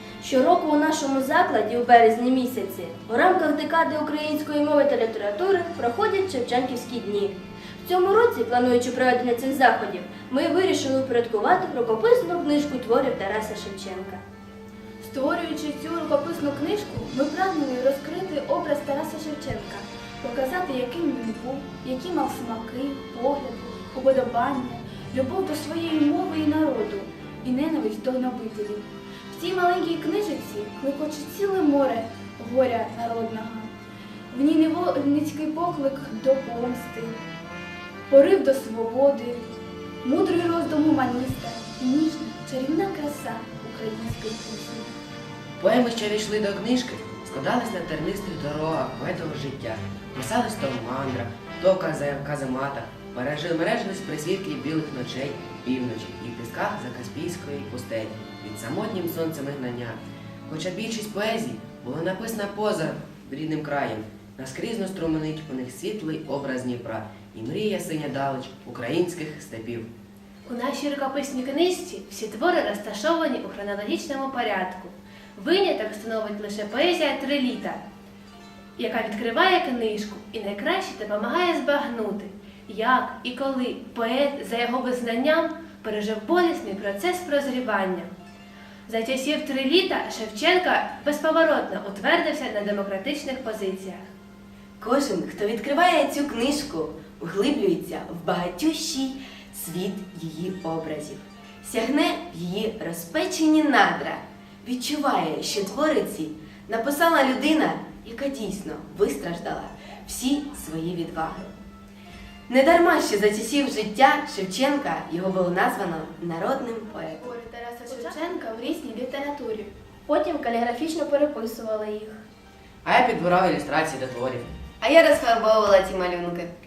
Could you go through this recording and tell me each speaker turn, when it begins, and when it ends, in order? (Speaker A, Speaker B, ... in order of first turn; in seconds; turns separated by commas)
Speaker A: 0.2-14.2, Speaker B: 15.0-33.7, Speaker B: 34.3-37.2, Speaker B: 38.1-39.5, Speaker B: 40.0-45.0, Speaker C: 45.6-69.9, Speaker D: 70.5-77.8, Speaker D: 78.8-88.1, Speaker D: 88.9-94.1, Speaker E: 94.8-111.5, Speaker E: 112.5-117.2, Speaker B: 117.2-119.7, Speaker A: 120.1-122.2, Speaker C: 122.8-124.5, Speaker E: 124.8-126.5